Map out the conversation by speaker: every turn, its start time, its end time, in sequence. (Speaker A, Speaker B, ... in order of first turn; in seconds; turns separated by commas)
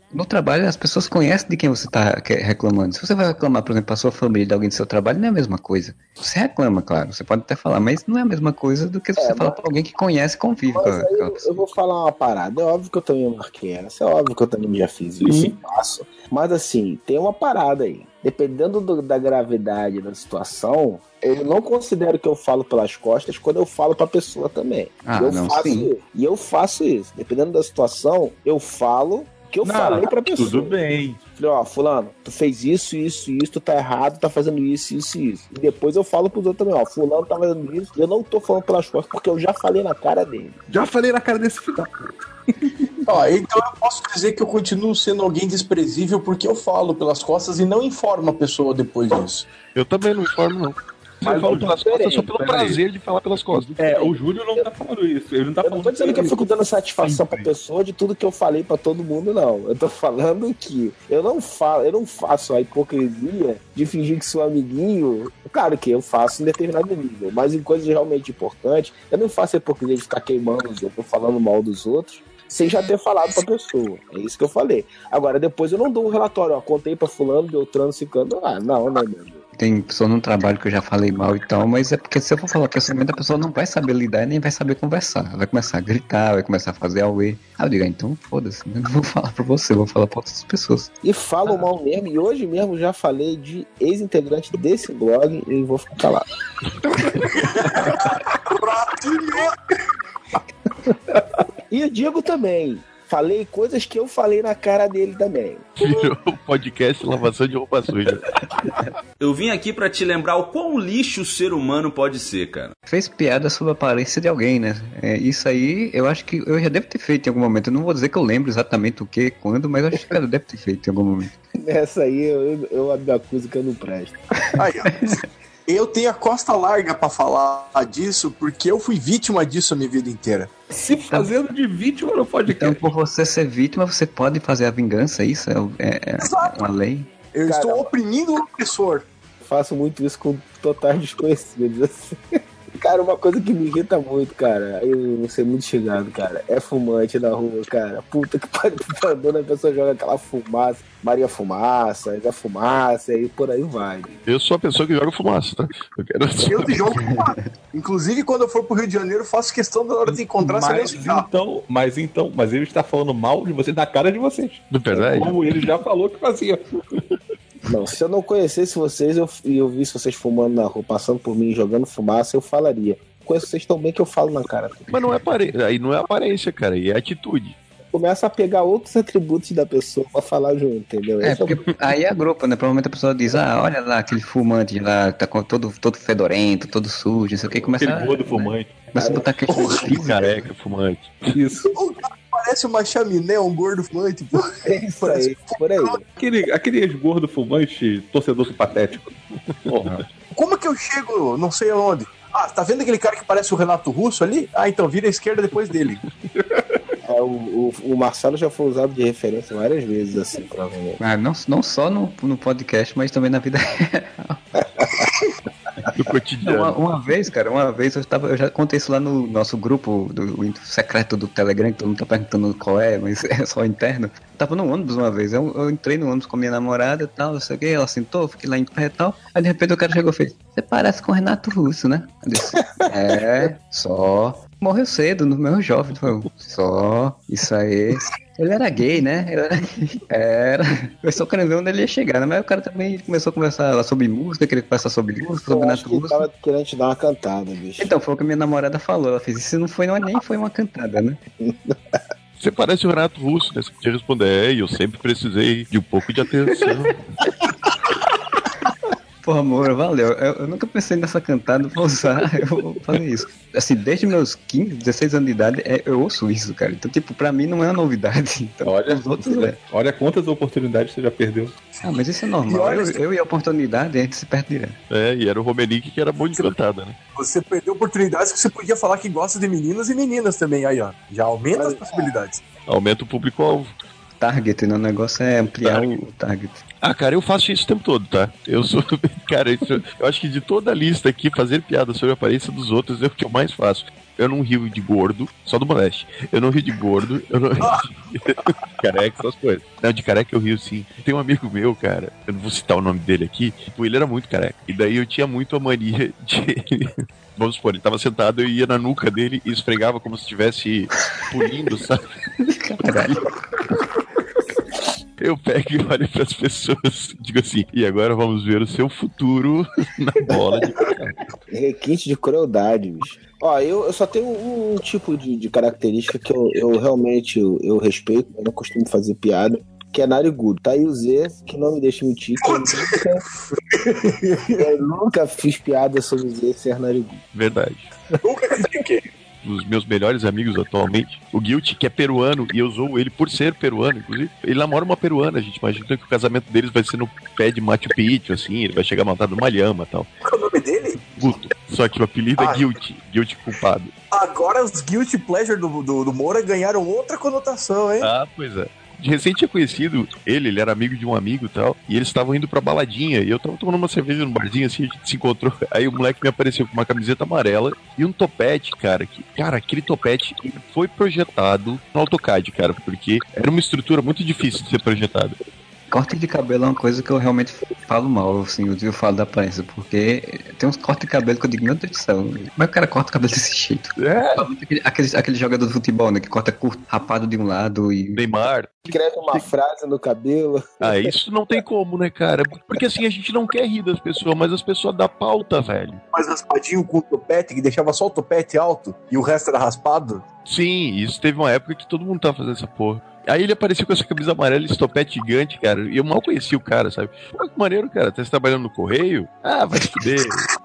Speaker A: 0.1-11.7, Speaker B: 9.2-9.6, Speaker B: 10.7-30.8, Speaker C: 15.2-15.5, Speaker A: 25.1-25.9, Speaker D: 29.6-31.2, Speaker B: 31.4-40.6, Speaker D: 40.7-43.1, Speaker E: 43.1-49.5, Speaker C: 49.7-54.2, Speaker D: 51.2-51.8, Speaker B: 51.3-52.3, Speaker D: 52.3-52.8, Speaker D: 53.5-56.4, Speaker B: 55.6-79.4, Speaker D: 57.0-57.5, Speaker A: 79.6-90.9, Speaker B: 91.0-96.2, Speaker E: 97.3-99.6, Speaker B: 101.7-105.7, Speaker C: 105.8-108.3, Speaker F: 109.2-112.7, Speaker A: 112.9-121.3, Speaker B: 121.6-124.2, Speaker A: 124.5-125.2, Speaker E: 124.6-130.6, Speaker D: 130.7-132.8, Speaker A: 132.5-137.1, Speaker E: 136.2-136.6, Speaker E: 137.3-139.1, Speaker B: 137.5-137.9, Speaker B: 139.4-142.2, Speaker B: 142.8-154.1, Speaker C: 154.3-156.9, Speaker E: 156.4-161.3, Speaker A: 157.0-157.4, Speaker D: 160.1-166.6, Speaker C: 164.7-165.7, Speaker B: 167.7-175.1, Speaker C: 174.9-177.6, Speaker B: 177.9-181.6, Speaker A: 181.2-190.3, Speaker D: 187.6-188.8, Speaker B: 189.0-190.1, Speaker C: 189.8-191.4, Speaker D: 191.3-191.7, Speaker E: 191.7-196.0, Speaker B: 194.6-196.0, Speaker D: 196.2-200.1, Speaker E: 200.3-206.0, Speaker B: 207.1-211.0, Speaker A: 211.0-214.4, Speaker C: 215.9-216.8, Speaker A: 216.5-246.3, Speaker B: 245.5-247.9, Speaker A: 247.8-251.2, Speaker B: 251.4-252.0, Speaker C: 252.4-257.0, Speaker A: 259.2-269.6, Speaker D: 268.6-271.5, Speaker E: 271.7-273.0, Speaker A: 271.8-274.8, Speaker C: 274.9-277.0, Speaker E: 277.1-282.4, Speaker B: 281.6-282.1, Speaker C: 282.7-283.7, Speaker A: 284.2-286.6, Speaker C: 285.6-286.0, Speaker C: 286.8-312.0, Speaker E: 297.6-297.9, Speaker A: 312.6-313.3, Speaker C: 315.2-320.9, Speaker B: 321.5-333.2, Speaker E: 332.4-332.9, Speaker E: 333.6-334.6, Speaker B: 334.6-337.2, Speaker C: 337.3-337.9, Speaker E: 338.2-339.1, Speaker C: 339.4-350.1, Speaker E: 350.2-351.4, Speaker C: 351.2-353.9, Speaker E: 352.4-352.8, Speaker E: 354.1-358.1, Speaker C: 358.0-375.4, Speaker A: 375.9-388.2, Speaker C: 384.0-384.5, Speaker C: 388.2-389.5, Speaker B: 388.9-391.2, Speaker C: 390.8-396.0, Speaker E: 396.1-400.2, Speaker C: 400.5-410.5